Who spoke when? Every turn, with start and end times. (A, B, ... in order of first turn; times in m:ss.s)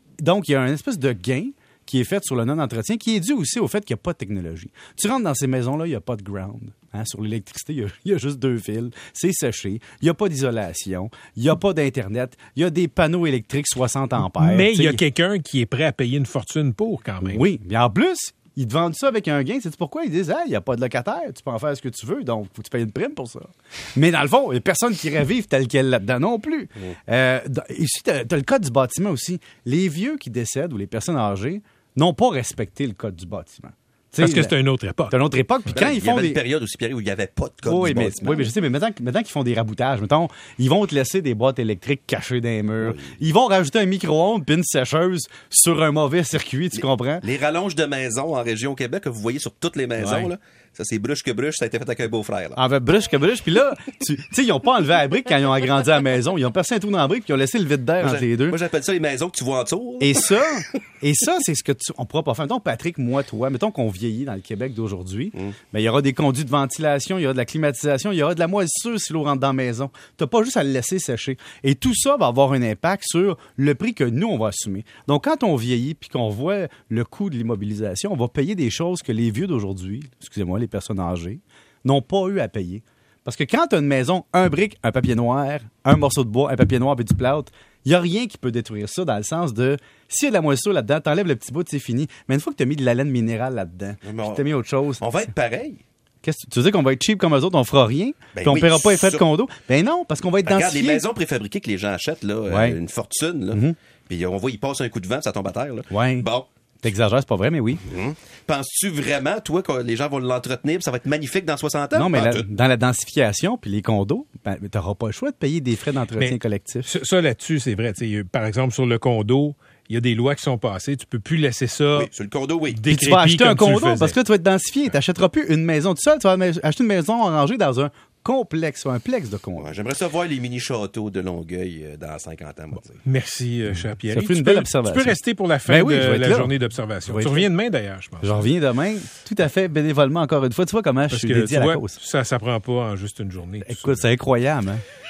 0:00.2-0:15.0 A
0:14.2-0:17.4 B
0:17.2-0:34.6 A
0:34.2-0:35.2 B
0:35.1-0:36.4 A
0:35.7-0:38.5 C
0:37.6-0:47.2 A
0:42.8-0:43.2 C
0:46.7-0:52.6 C
0:50.0-0:50.3 A
0:52.6-0:58.6 A
0:58.0-1:00.5 C
1:00.0-1:35.3 A
1:34.0-1:34.5 C
1:35.0-1:35.8 C
1:36.2-1:41.0 A
1:38.4-1:39.2 C
1:40.4-1:46.5 C
1:42.5-1:42.8 A
1:43.5-1:43.8 A
1:45.9-1:46.3 A
1:46.8-1:47.8 A
1:47.8-1:52.5 C
1:51.9-1:56.9 A
1:56.1-2:02.1 B
2:02.0-2:02.8 C
2:02.7-2:04.2 B
2:02.9-2:09.7 A
2:09.6-2:13.0 C
2:13.0-2:18.4 B
2:14.1-2:17.5 A
2:18.2-2:22.0 A
2:21.1-2:24.0 B
2:23.6-2:24.8 A